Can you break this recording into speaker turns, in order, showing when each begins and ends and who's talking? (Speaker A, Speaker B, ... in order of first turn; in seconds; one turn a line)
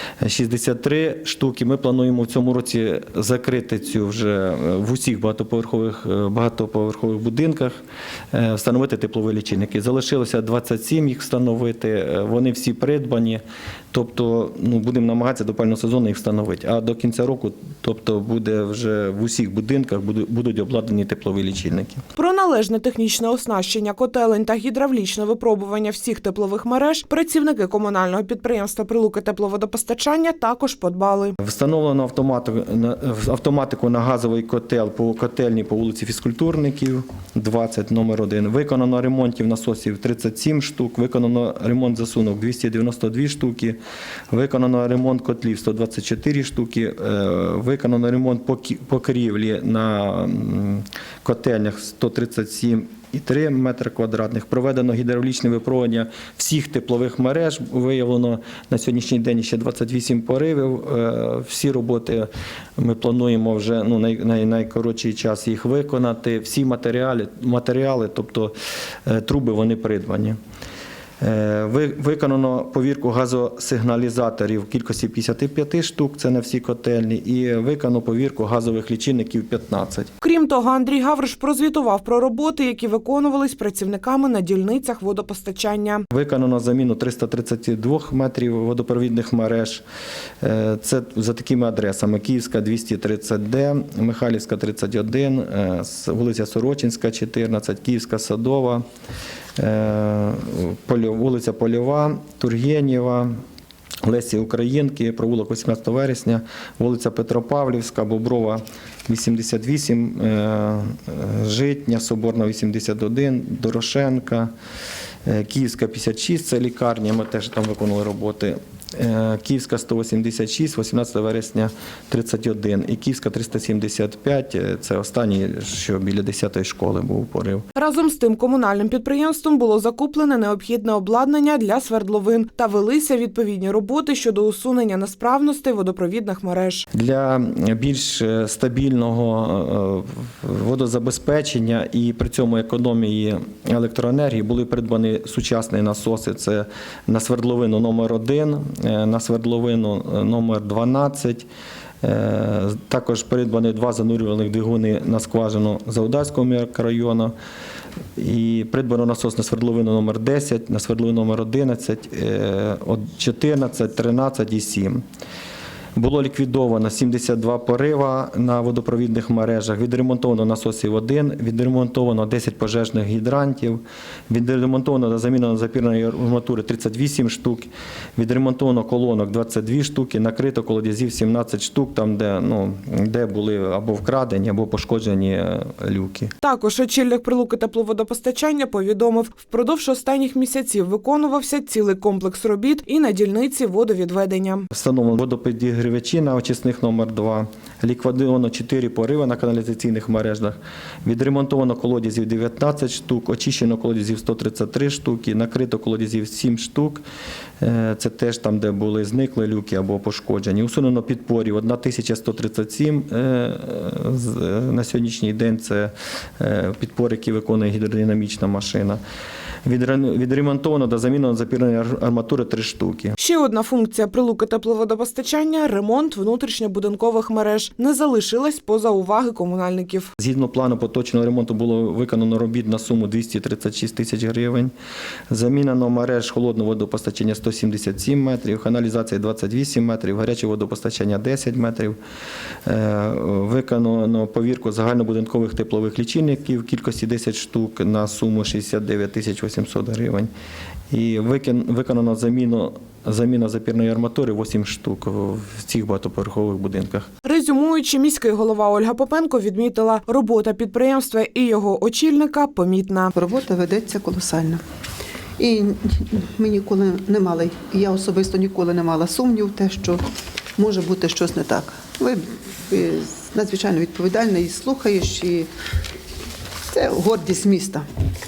Speaker A: 0.2-7.8
Speaker A: 8.3-22.0
Speaker B: 22.1-31.4
Speaker A: 31.4-43.8
Speaker A: 44.3-68.5
Speaker A: 69.0-70.4
Speaker A: 71.2-80.1
Speaker B: 80.2-86.0
Speaker A: 86.1-89.8
Speaker A: 90.4-98.8
Speaker A: 99.6-103.3
Speaker A: 104.0-114.5
Speaker A: 115.2-127.7
Speaker B: 127.7-136.8
Speaker A: 136.9-151.5
Speaker A: 152.0-157.3
Speaker A: 158.2-165.0
Speaker A: 165.9-186.3
Speaker B: 186.4-194.7
Speaker A: 194.7-207.0
Speaker A: 207.6-219.0
Speaker A: 219.6-223.2
Speaker B: 223.2-230.1
Speaker A: 230.2-234.7
Speaker A: 235.3-242.0
Speaker A: 242.6-250.3
Speaker A: 250.9-257.1
Speaker B: 257.2-263.1
Speaker C: 263.1-264.6
Speaker C: 265.4-270.0
Speaker C: 270.6-275.5
Speaker C: 276.7-277.8